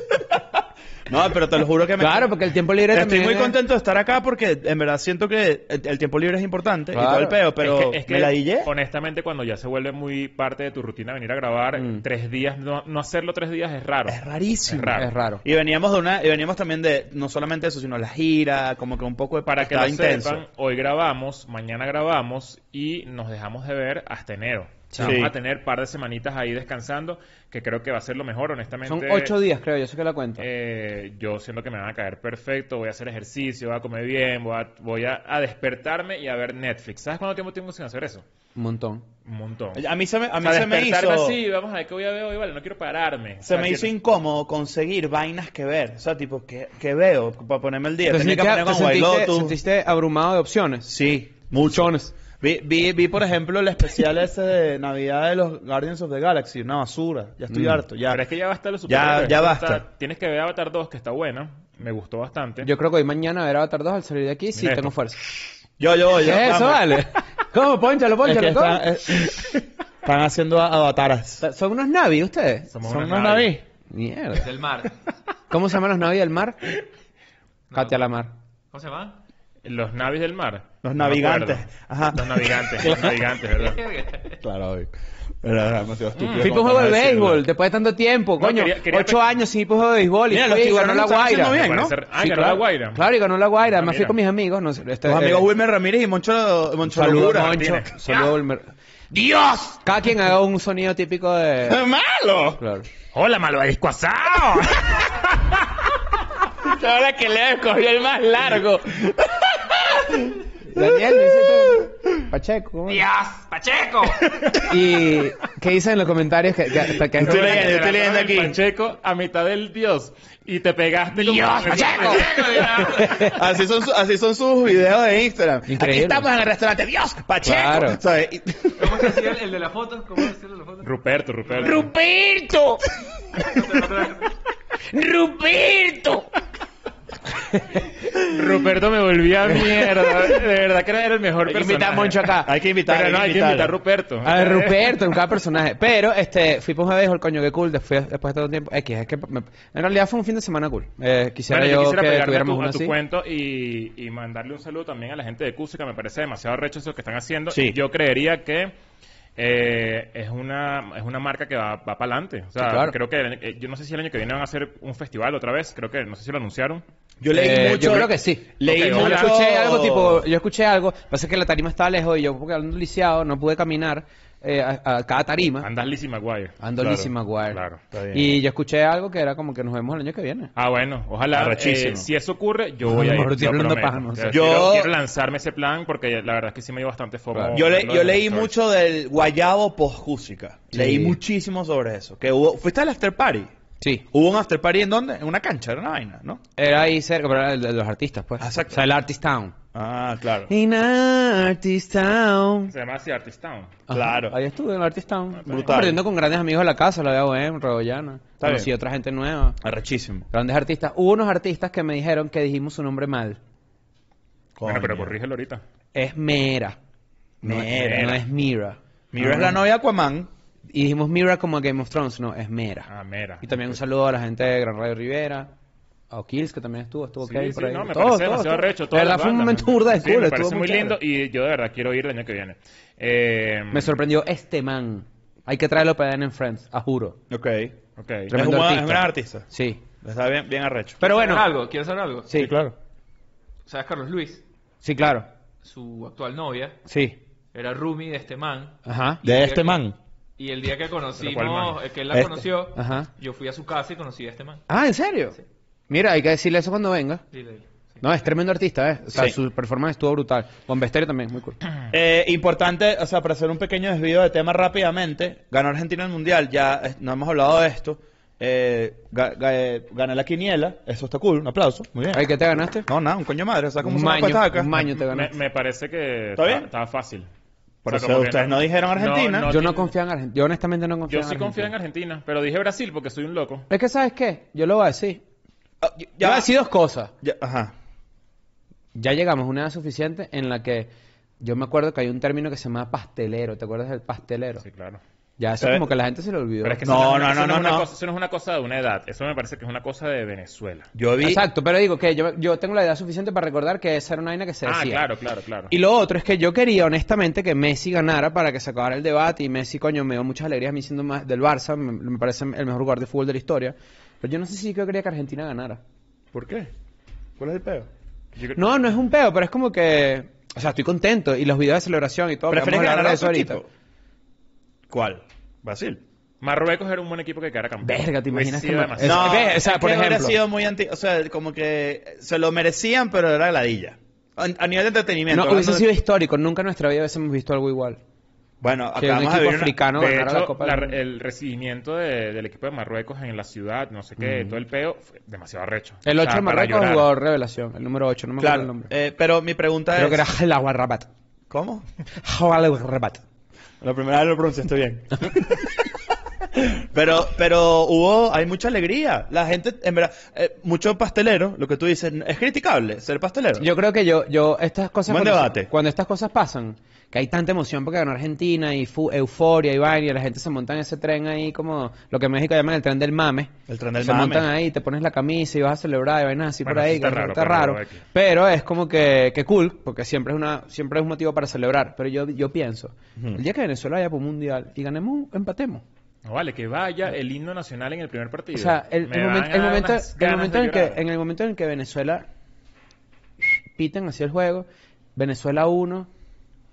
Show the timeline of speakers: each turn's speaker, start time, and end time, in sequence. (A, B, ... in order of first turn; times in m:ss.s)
0:01.1-0:02.3 A
0:02.0-0:03.6 B
0:02.9-0:08.7 A
0:06.9-0:07.4 B
0:07.6-0:15.1 C
0:11.8-0:12.0 B
0:14.1-0:20.4 A
0:14.9-0:15.4 B
0:19.4-0:29.4 C
0:24.9-0:25.2 B
0:25.0-0:25.3 A
0:28.9-0:30.4 B
0:30.4-0:38.2 C
0:38.5-0:39.0 B
0:39.2-0:39.8 C
0:39.7-0:41.4 A
0:40.4-0:43.9 C
0:43.4-0:49.6 A
0:48.0-0:50.9 B
0:50.8-0:58.2 A
0:51.6-0:52.1 B
0:57.5-0:57.8 B
0:58.1-1:02.7 C
0:58.8-0:59.8 A
1:02.6-1:05.4 B
1:04.6-1:04.9 C
1:05.8-1:07.0 A
1:06.2-1:08.8 B
1:08.2-1:11.4 A
1:11.4-1:12.7 B
1:12.7-1:13.5 C
1:12.8-1:13.6 A
1:13.9-1:14.5 B
1:14.4-1:15.0 D
1:15.5-1:16.6 B
1:17.7-1:18.0 D
1:17.7-1:18.3 B
1:18.7-1:19.2 D
1:19.6-1:23.8 C
1:20.8-1:23.2 A
1:23.4-1:24.4 D
1:24.4-1:27.4 A
1:26.1-1:26.6 C
1:26.4-1:35.4 B
1:28.4-1:29.3 C
1:30.3-1:32.0 A
1:31.5-1:33.0 C
1:33.7-1:34.2 C
1:35.0-1:37.9 A
1:36.8-1:38.7 B
1:37.2-1:37.9 C
1:39.1-1:39.8 A
1:39.6-1:41.9 B
1:41.6-1:42.6 A
1:42.6-1:42.9 B
1:43.1-1:45.7 C
1:46.6-1:51.9 A
1:50.6-1:53.0 B
1:52.9-1:54.7 D
1:54.6-1:57.7 B
1:57.1-1:58.6 A
1:57.2-2:02.7 C
2:01.1-2:03.4 B
2:01.5-2:03.3 D
2:03.2-2:09.3 A
2:05.7-2:06.3 B
2:07.4-2:08.0 B
2:08.8-2:10.9 D
2:10.8-2:11.9 C
2:11.4-2:11.8 D
2:11.5-2:12.9 B
2:13.4-2:14.3 D
2:14.9-2:16.3 B
2:17.5-2:18.4 B
2:18.1-2:25.1 C
2:19.6-2:20.3 B
2:21.4-2:22.5 B
2:22.4-2:23.8 A
2:24.2-2:32.9 B
2:31.5-2:38.7 C
2:37.5-2:37.8 A
2:39.4-2:46.8 C
2:42.6-2:42.9 B
2:47.2-2:50.3 A
2:47.3-2:55.7 B
2:48.6-2:49.3 C
2:55.6-2:56.6 C
2:56.6-2:57.6 B
2:56.8-2:57.1 A
2:57.5-2:57.8 C
2:57.9-2:58.4 A
2:58.1-3:00.5 B
3:00.6-3:08.5 C
3:01.3-3:02.1 A
3:02.8-3:04.5 B
3:04.3-3:05.0 A
3:07.3-3:07.6 B
3:07.5-3:13.5 A
3:10.7-3:11.2 B
3:14.1-3:16.4 A
3:16.6-3:19.6 B
3:18.4-3:18.9 A
3:19.7-3:20.5 A
3:20.5-3:22.7 B
3:22.7-3:23.7 C
3:23.9-3:29.6 B
3:23.9-3:24.4 A
3:25.4-3:25.8 C
3:25.4-3:26.0 A
3:28.4-3:28.7 A
3:29.6-3:30.3 A
3:30.3-3:33.4 B
3:34.6-3:35.1 A
3:34.6-3:35.6 C
3:35.9-3:36.8 B
3:37.4-3:38.2 A
3:37.4-3:39.6 B
3:37.7-3:38.2 C
3:39.1-3:40.3 A
3:40.7-3:42.9 B
3:42.9-3:43.5 C
3:43.4-3:45.5 B
3:46.1-3:51.0 B
3:47.2-3:53.9 C
3:53.7-3:57.2 B
3:57.3-3:57.7 A
3:58.0-3:58.3 C
3:58.3-3:59.5 A
3:58.3-3:59.8 B
4:00.0-4:01.0 A
4:01.0-4:02.3 D
4:01.0-4:01.5 B
4:02.3-4:02.5 B
4:02.3-4:02.7 A
4:03.6-4:04.4 D
4:04.8-4:05.3 B
4:05.6-4:06.8 D
4:06.8-4:07.2 B
4:07.5-4:09.8 D
4:08.8-4:09.2 B
4:09.2-4:09.9 A
4:10.4-4:14.6 D
4:11.2-4:11.8 C
4:12.1-4:12.4 A
4:12.7-4:13.1 B
4:14.7-4:15.4 B
4:15.9-4:17.2 B
4:17.3-4:17.6 D
4:18.0-4:21.6 B
4:21.9-4:34.7 A
4:32.1-4:32.9 B
4:33.8-4:35.3 B
4:34.9-4:37.3 C
4:36.4-4:36.7 A
4:37.8-4:39.5 A
4:37.9-4:39.9 C
4:39.4-4:41.7 B
4:41.1-4:43.6 C
4:43.7-4:45.2 B
4:45.8-4:46.5 A
4:46.2-4:47.1 B
4:47.2-4:47.7 A
4:48.9-4:50.9 B
4:51.4-4:54.6 B
4:54.6-4:55.0 C
4:55.4-4:57.1 B
4:55.6-4:55.9 A
4:56.6-5:00.9 C
4:56.8-4:57.9 A
5:00.9-5:01.4 A
5:01.2-5:05.0 B
5:04.6-5:05.7 C
5:05.7-5:15.8 B
5:16.3-5:16.7 A
5:17.4-5:17.9 A
5:18.4-5:18.6 C
5:18.5-5:23.6 B
5:22.5-5:23.7 A
5:24.9-5:26.0 A
5:26.4-5:29.6 C
5:27.8-5:30.4 B
5:29.0-5:35.9 A
5:35.3-5:38.0 B
5:38.6-5:39.8 A
5:39.0-5:41.0 B
5:39.9-5:47.1 C
5:46.0-5:48.9 B
5:48.4-5:50.2 A
5:49.9-5:51.1 B
5:51.5-5:51.8 A
5:52.2-5:53.2 B
5:53.8-5:55.7 A
5:56.5-6:03.7 A
6:03.6-6:25.8 B
6:05.1-6:05.7 A
6:13.7-6:14.5 A
6:16.6-6:18.0 C
6:26.2-6:31.0 C
6:28.5-6:32.2 B
6:33.7-6:36.1 B